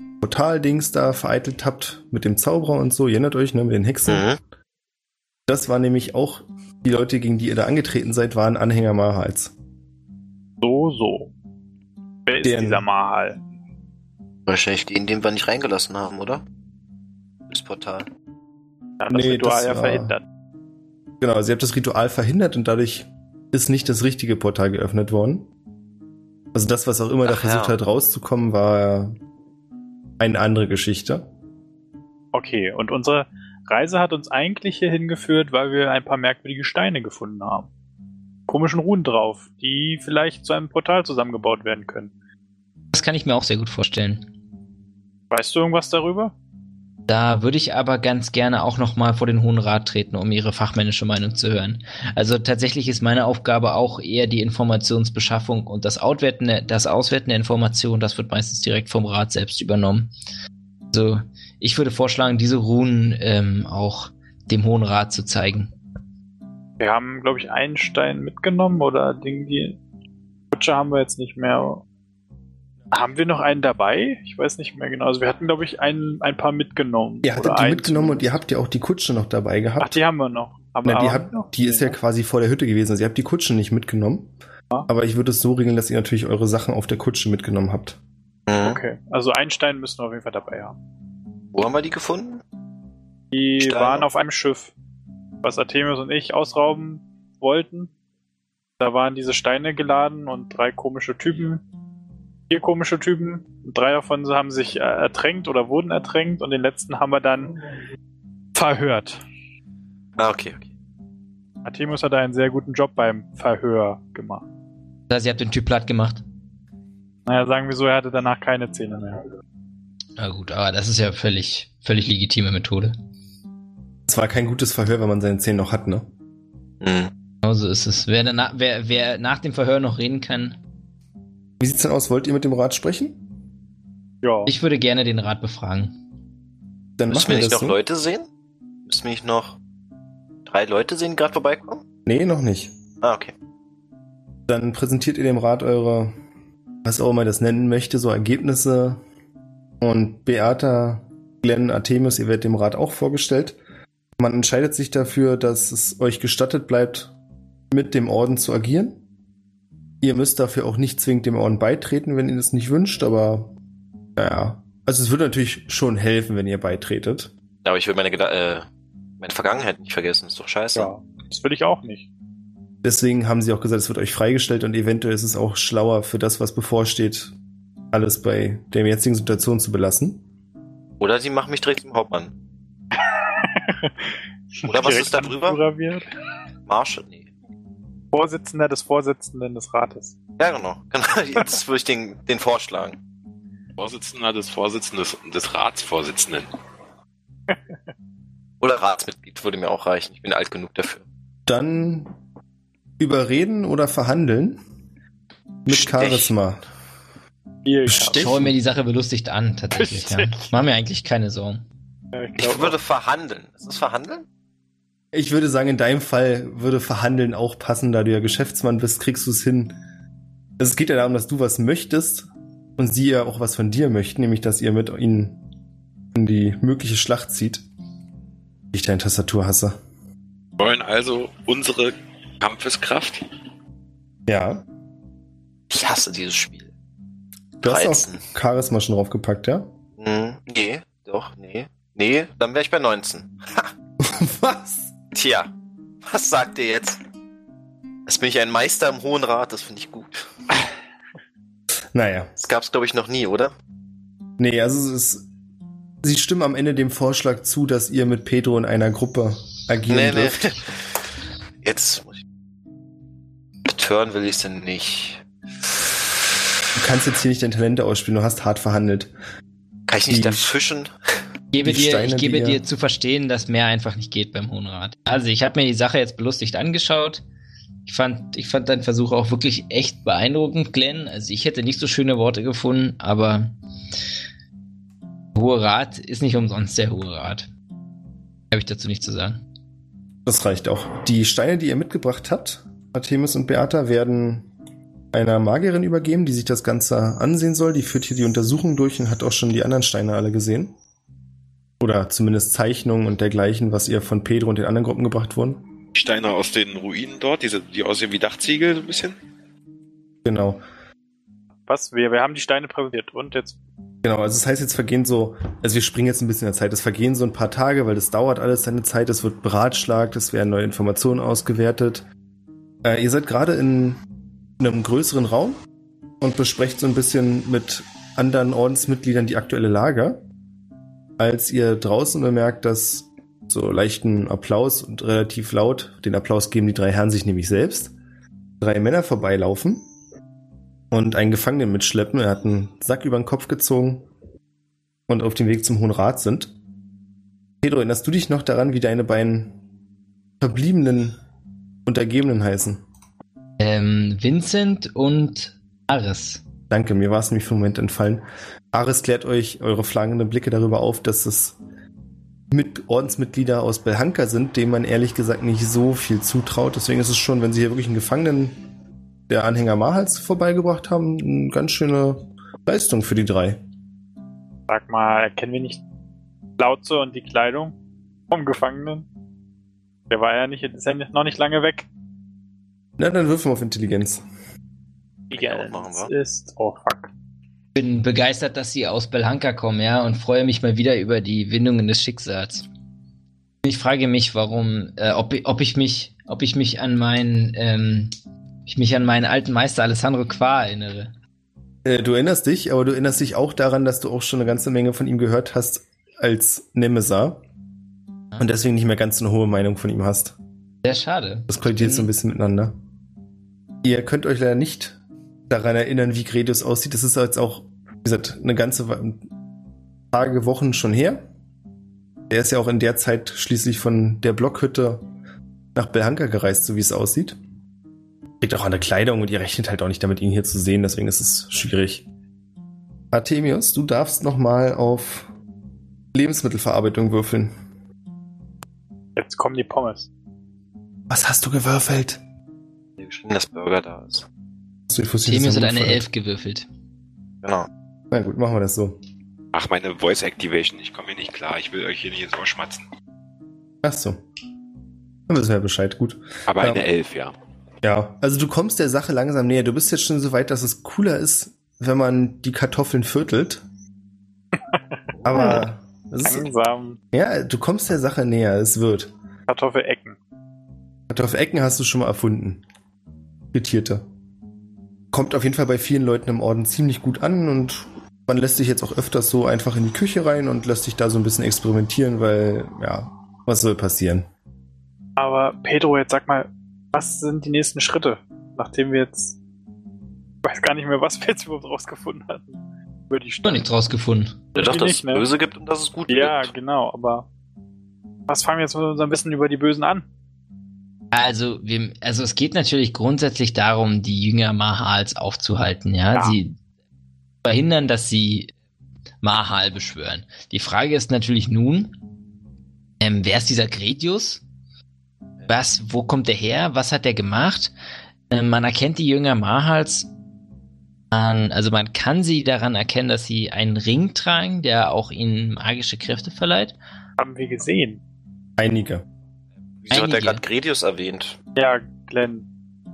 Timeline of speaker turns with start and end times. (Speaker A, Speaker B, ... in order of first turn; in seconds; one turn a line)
Speaker A: 0.2-4.3
Speaker B: 4.1-4.4
Speaker A: 5.5-9.5
Speaker C: 10.6-11.3
Speaker C: 12.2-13.4
Speaker A: 12.4-12.8
Speaker B: 14.5-16.4
Speaker B: 17.5-18.1
Speaker C: 19.0-20.2
Speaker A: 19.1-20.1
Speaker A: 21.2-25.5
Speaker A: 26.5-29.1
Speaker B: 27.2-27.7
Speaker A: 30.2-31.2
Speaker C: 32.3-37.7
Speaker C: 38.5-42.1
Speaker D: 42.9-44.2
Speaker C: 45.3-46.3
Speaker D: 47.1-60.1
Speaker D: 60.9-65.7
Speaker C: 66.8-69.8
Speaker C: 70.5-71.8
Speaker C: 72.9-78.3
Speaker A: 77.2-80.0
Speaker C: 79.8-81.9
Speaker A: 80.8-84.3
Speaker A: 84.9-88.0
Speaker B: 88.5-88.8
Speaker C: 88.6-90.8
Speaker B: 91.5-92.4
Speaker C: 93.3-94.7
Speaker B: 93.6-94.0
Speaker C: 95.4-97.9
Speaker C: 98.8-101.6
Speaker C: 102.5-107.5
Speaker C: 108.5-109.2
Speaker B: 110.2-110.7
Speaker C: 111.6-114.4
Speaker D: 115.1-116.2
Speaker C: 117.2-119.2
Speaker D: 120.2-123.0
Speaker A: 124.1-126.0
Speaker B: 126.8-127.1
Speaker D: 127.4-130.6
Speaker A: 131.6-133.2
Speaker C: 134.2-134.5
Speaker D: 134.4-135.9
Speaker A: 137.0-137.8
Speaker B: 137.1-138.3
Speaker B: 138.8-139.6
Speaker B: 140.4-141.8
Speaker A: 142.1-142.7
Speaker B: 143.0-143.3
Speaker A: 144.5-146.1
Speaker A: 146.8-149.0
Speaker A: 149.8-153.6
Speaker A: 154.2-157.1
Speaker A: 157.7-159.0
Speaker A: 160.0-163.5
Speaker A: 164.2-167.3
Speaker B: 167.6-168.7
Speaker B: 169.2-170.9
Speaker C: 170.7-172.1
Speaker A: 172.8-177.3
Speaker A: 177.9-180.2
Speaker B: 181.0-182.3
Speaker C: 183.0-186.1
Speaker B: 184.6-185.6
Speaker B: 186.7-187.3
Speaker C: 188.1-190.2
Speaker B: 190.4-193.0
Speaker E: 193.8-196.5
Speaker B: 198.6-201.0
Speaker A: 201.5-202.1
Speaker A: 203.0-204.6
Speaker A: 205.7-206.6
Speaker B: 205.7-206.3
Speaker C: 207.7-208.2
Speaker A: 207.9-208.5
Speaker D: 208.2-211.6
Speaker C: 209.7-210.5
Speaker C: 212.1-212.8
Speaker B: 212.4-214.2
Speaker A: 215.1-219.8
Speaker A: 220.6-225.4
Speaker A: 226.1-227.6
Speaker A: 228.7-229.8
Speaker E: 230.6-233.2
Speaker A: 234.3-234.6
Speaker B: 235.7-236.7
Speaker A: 237.6-239.7
Speaker B: 237.6-238.2
Speaker B: 240.0-243.7
Speaker A: 244.0-244.9
Speaker B: 245.1-245.5
Speaker B: 246.0-247.0
Speaker B: 248.1-250.2
Speaker A: 251.9-252.3
Speaker B: 252.4-253.5
Speaker A: 254.4-255.2
Speaker A: 256.0-260.6
Speaker B: 259.9-260.8
Speaker B: 261.6-262.2
Speaker B: 263.7-265.2
Speaker A: 266.8-269.1
Speaker B: 269.9-270.9
Speaker A: 270.1-270.5
Speaker D: 271.5-277.2
Speaker A: 271.6-272.6
Speaker D: 277.9-283.5
Speaker D: 285.3-287.5
Speaker D: 288.5-289.4
Speaker A: 290.2-294.5
Speaker A: 295.1-300.7
Speaker A: 301.8-305.6
Speaker E: 305.9-309.2
Speaker A: 310.2-310.6
Speaker C: 311.7-313.6
Speaker A: 314.0-322.0
Speaker A: 322.8-324.0
Speaker A: 324.6-325.6
Speaker A: 326.2-330.2
Speaker A: 331.2-337.9
Speaker A: 338.6-339.8
Speaker A: 340.9-344.1
Speaker A: 345.1-346.5
Speaker A: 347.6-349.5
Speaker A: 350.4-351.2
Speaker A: 351.9-352.8
Speaker D: 353.6-356.4
Speaker A: 356.7-361.6
Speaker A: 362.5-368.6
Speaker A: 369.3-373.6
Speaker C: 374.7-375.8
Speaker C: 376.6-377.8
Speaker C: 378.3-379.1
Speaker C: 380.1-381.9
Speaker A: 383.0-384.2
Speaker C: 385.3-387.1
Speaker B: 385.3-386.1
Speaker D: 387.7-392.7
Speaker D: 393.6-398.1
Speaker D: 398.6-401.1
Speaker A: 401.8-407.4
Speaker A: 408.4-410.4
Speaker D: 410.8-412.1
Speaker A: 411.5-412.7
Speaker A: 413.8-415.0
Speaker A: 415.5-419.2
Speaker A: 420.1-421.2
Speaker A: 422.3-425.0
Speaker A: 425.7-427.4
Speaker A: 428.4-432.1
Speaker A: 433.1-435.3
Speaker A: 436.1-437.5
Speaker C: 439.1-440.1
Speaker A: 441.1-442.2
Speaker B: 443.0-444.2
Speaker A: 444.9-446.0
Speaker D: 445.2-446.7
Speaker B: 447.4-447.7
Speaker A: 448.1-449.0
Speaker E: 449.5-452.8
Speaker A: 453.8-454.2
Speaker A: 455.3-456.9
Speaker E: 456.5-457.3
Speaker A: 457.8-463.6
Speaker A: 465.2-466.5
Speaker C: 465.3-465.7
Speaker C: 466.2-467.0
Speaker A: 467.1-469.1
Speaker C: 469.5-470.2
Speaker A: 471.1-472.6
Speaker A: 473.5-474.0
Speaker A: 475.1-484.3
Speaker C: 485.2-489.4
Speaker C: 490.4-493.7
Speaker D: 493.4-494.4
Speaker C: 494.5-495.3
Speaker B: 494.5-496.5
Speaker C: 496.1-497.3
Speaker C: 498.3-500.0
Speaker D: 501.1-506.6
Speaker D: 507.4-508.5
Speaker D: 509.2-511.9
Speaker D: 513.0-514.4
Speaker D: 515.5-517.7
Speaker D: 518.3-520.1
Speaker D: 521.1-526.7
Speaker C: 527.2-528.0
Speaker A: 528.6-529.0
Speaker B: 529.9-531.4
Speaker D: 529.9-530.4
Speaker C: 531.5-532.5